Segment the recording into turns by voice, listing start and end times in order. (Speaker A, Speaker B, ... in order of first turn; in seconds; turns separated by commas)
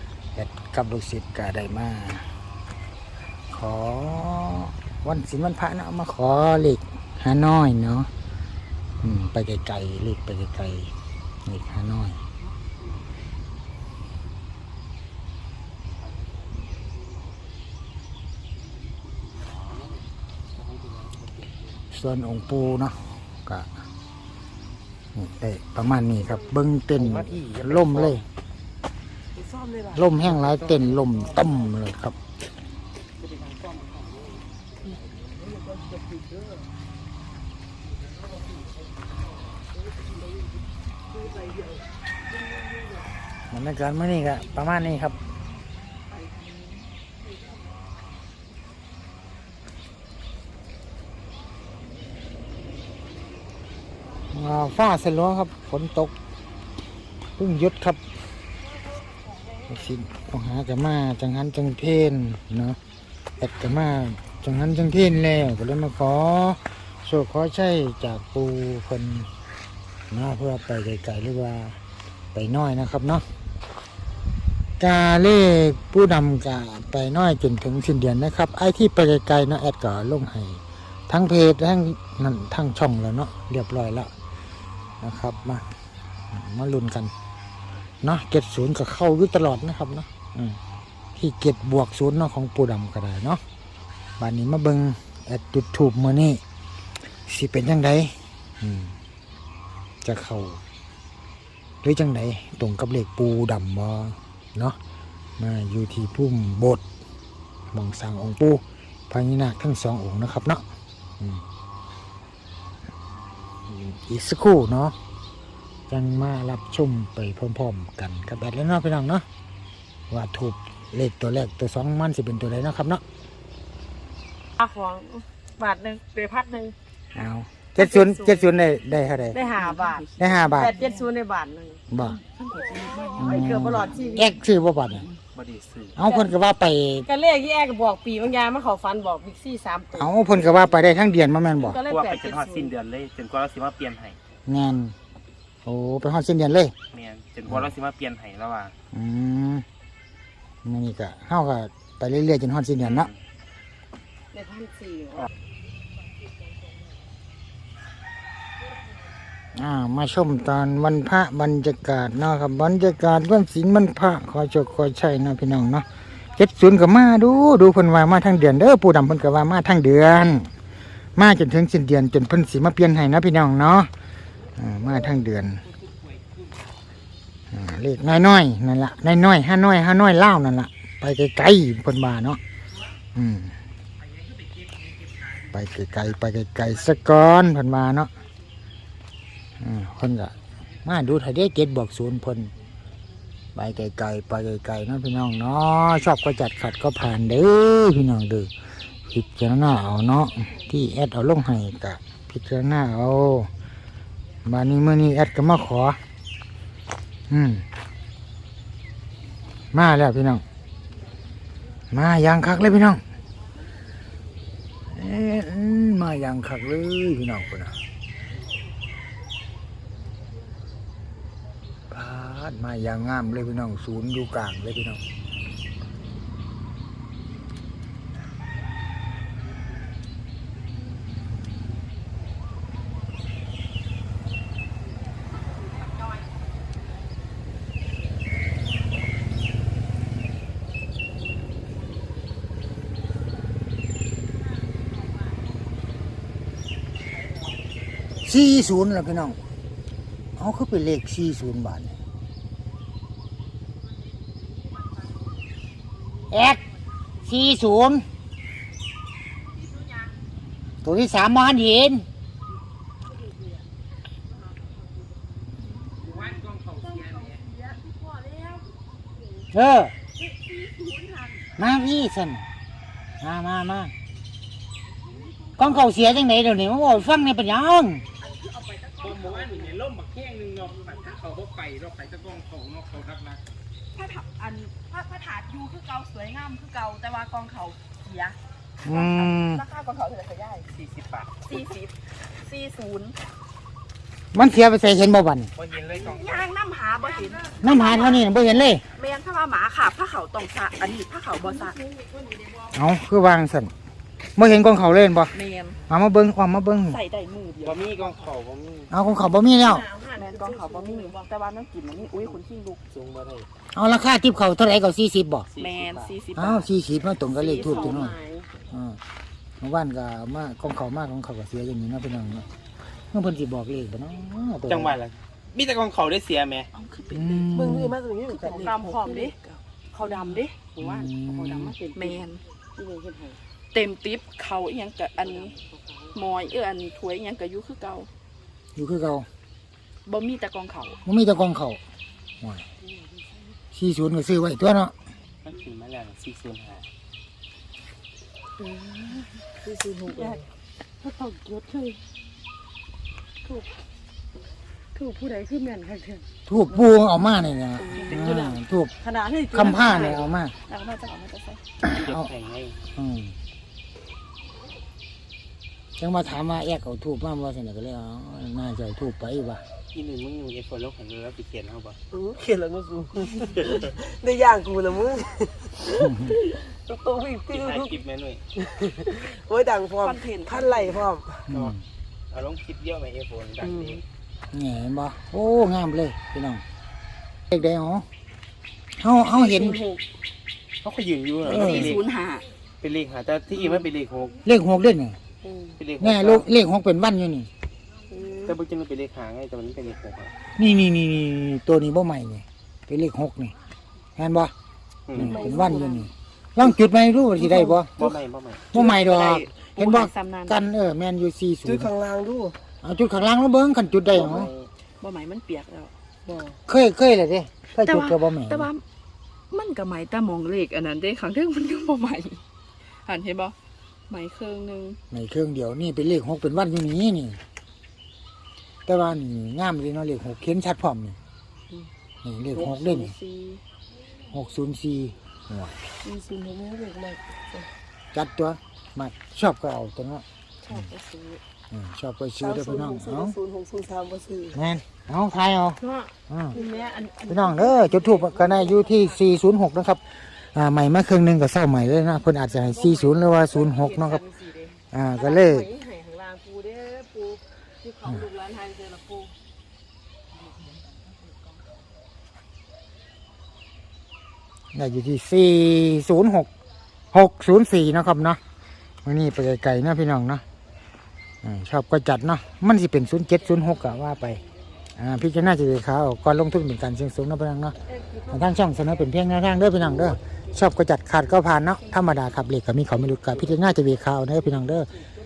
Speaker A: 0.3-2.3, Speaker A: 3.5-8.1, Speaker A: 9.0-10.9, Speaker A: 11.5-12.2, Speaker B: 19.6-21.8, Speaker A: 21.9-23.7, Speaker A: 25.1-28.2, Speaker B: 26.9-28.2, Speaker C: 29.3-30.2, Speaker A: 29.9-32.2, Speaker B: 30.3-31.6, Speaker B: 33.2-34.5, Speaker C: 35.1-36.7, Speaker C: 41.2-41.6, Speaker A: 43.5-45.2, Speaker A: 54.3-56.1, Speaker A: 57.4-58.0, Speaker A: 59.7-62.8, Speaker A: 63.4-69.3, Speaker A: 70.1-71.8, Speaker A: 72.3-73.2, Speaker A: 74.8-84.1, Speaker A: 85.0-85.7, Speaker A: 86.3-87.1, Speaker A: 88.0-90.6, Speaker A: 91.2-93.4, Speaker A: 94.2-96.4, Speaker A: 97.3-99.0, Speaker A: 100.0-100.6, Speaker A: 101.8-104.8, Speaker A: 105.4-106.8, Speaker A: 107.7-110.6, Speaker A: 113.7-115.0, Speaker A: 115.9-119.2, Speaker A: 120.1-123.0, Speaker D: 124.6-126.7, Speaker A: 127.2-129.4, Speaker D: 127.8-128.5, Speaker D: 129.3-131.8, Speaker E: 129.5-131.0, Speaker A: 130.2-130.7, Speaker A: 131.9-132.2, Speaker E: 132.0-134.2, Speaker D: 133.0-134.3, Speaker A: 133.2-135.1, Speaker B: 135.3-136.0, Speaker A: 135.9-137.1, Speaker D: 137.0-140.9, Speaker A: 139.9-141.8, Speaker D: 141.6-142.8, Speaker B: 141.8-144.2, Speaker A: 144.5-144.9, Speaker A: 145.7-146.7, Speaker B: 146.9-148.7, Speaker A: 147.5-147.8, Speaker A: 148.9-149.7, Speaker A: 150.7-153.1, Speaker D: 154.3-155.3, Speaker A: 159.5-165.8, Speaker A: 166.4-170.5, Speaker A: 171.2-173.9, Speaker A: 174.6-175.6, Speaker B: 175.8-176.3, Speaker A: 177.5-182.4, Speaker A: 183.2-183.6, Speaker B: 184.3-185.4, Speaker A: 185.5-188.1, Speaker A: 189.6-190.3, Speaker A: 190.8-192.5, Speaker A: 193.5-198.5, Speaker A: 199.1-203.5, Speaker A: 204.4-206.0, Speaker A: 207.3-207.7, Speaker A: 209.7-210.4, Speaker A: 211.9-213.0, Speaker A: 214.9-217.8, Speaker A: 221.9-225.0, Speaker A: 248.2-249.4, Speaker A: 250.4-252.0, Speaker A: 256.3-256.6, Speaker A: 257.2-258.1, Speaker A: 260.8-262.1, Speaker B: 266.0-267.4, Speaker A: 269.5-269.9, Speaker E: 270.3-271.3, Speaker A: 271.6-272.4, Speaker A: 273.2-273.9, Speaker A: 275.6-278.1, Speaker B: 278.9-283.4, Speaker E: 283.9-290.7, Speaker A: 288.8-289.6, Speaker B: 290.7-291.4, Speaker E: 291.4-293.1, Speaker A: 294.3-295.5, Speaker B: 295.6-296.5, Speaker E: 295.9-298.3, Speaker A: 297.6-298.8, Speaker E: 298.9-301.8, Speaker D: 301.4-302.5, Speaker A: 302.7-303.7, Speaker A: 304.4-305.3, Speaker E: 305.3-305.8, Speaker A: 305.9-307.0, Speaker E: 306.9-307.9, Speaker B: 307.6-308.9, Speaker A: 308.9-309.8, Speaker D: 309.6-311.3, Speaker E: 310.1-312.8, Speaker B: 312.0-312.4, Speaker B: 312.9-313.5, Speaker A: 313.7-315.5, Speaker B: 315.5-316.2, Speaker E: 315.6-316.7, Speaker A: 316.3-318.1, Speaker D: 317.3-318.5, Speaker A: 318.7-319.0, Speaker A: 319.6-322.4, Speaker A: 323.1-324.9, Speaker B: 324.7-326.7, Speaker E: 326.7-327.6, Speaker A: 327.1-328.0, Speaker C: 327.5-329.3, Speaker E: 328.2-329.6, Speaker D: 328.4-329.3, Speaker D: 329.9-333.4, Speaker A: 330.8-331.7, Speaker E: 331.9-332.4, Speaker E: 333.7-335.5, Speaker D: 335.2-336.1, Speaker E: 336.1-338.1, Speaker A: 338.8-339.3, Speaker E: 340.1-341.0, Speaker A: 341.1-341.8, Speaker A: 343.7-344.9, Speaker B: 345.4-346.9, Speaker D: 348.6-349.2, Speaker C: 349.6-350.4, Speaker D: 350.0-350.4, Speaker D: 351.0-352.0, Speaker D: 354.9-356.2, Speaker A: 356.4-358.9, Speaker D: 357.9-360.3, Speaker A: 359.5-360.5, Speaker E: 360.7-361.6, Speaker B: 361.8-362.8, Speaker A: 361.9-362.3, Speaker A: 362.9-363.4, Speaker A: 366.0-369.6, Speaker B: 369.9-372.0, Speaker C: 372.1-378.0, Speaker A: 375.9-376.4, Speaker B: 377.5-378.4, Speaker C: 378.6-381.4, Speaker E: 380.0-381.0, Speaker B: 381.5-381.8, Speaker A: 381.5-381.8, Speaker B: 382.3-384.0, Speaker C: 383.6-384.0, Speaker A: 384.5-386.6, Speaker A: 387.5-388.1, Speaker A: 388.9-389.8, Speaker C: 389.3-390.0, Speaker B: 390.8-392.0, Speaker A: 391.4-392.0, Speaker E: 391.4-392.5, Speaker B: 392.8-394.4, Speaker A: 394.4-395.2, Speaker B: 395.8-396.5, Speaker A: 396.0-397.5, Speaker B: 398.4-400.3, Speaker A: 400.6-403.5, Speaker A: 404.1-404.5, Speaker B: 405.1-405.4, Speaker A: 405.1-407.9, Speaker C: 405.1-406.0, Speaker D: 405.4-405.8, Speaker C: 407.4-407.7, Speaker B: 407.9-408.7, Speaker A: 408.7-411.9, Speaker E: 408.8-410.7, Speaker C: 411.6-412.6, Speaker A: 412.8-414.5, Speaker B: 414.1-414.7, Speaker E: 415.0-415.9, Speaker C: 416.2-416.6, Speaker A: 416.7-418.7, Speaker E: 417.8-418.8, Speaker E: 419.5-422.4, Speaker E: 423.0-423.5, Speaker E: 424.1-425.0, Speaker A: 425.1-427.4, Speaker A: 428.9-431.2, Speaker A: 432.2-433.1, Speaker E: 432.5-433.6, Speaker A: 434.3-435.8, Speaker C: 436.0-437.7, Speaker A: 438.1-440.9, Speaker E: 440.6-441.4, Speaker A: 441.7-443.4, Speaker C: 442.4-444.6, Speaker A: 444.5-446.6, Speaker D: 445.8-449.2, Speaker A: 447.3-454.2, Speaker D: 452.6-459.3, Speaker A: 454.9-455.7, Speaker A: 464.7-466.5, Speaker A: 467.1-468.4, Speaker A: 469.0-470.4, Speaker A: 471.4-474.4, Speaker A: 474.9-477.8, Speaker A: 478.3-484.9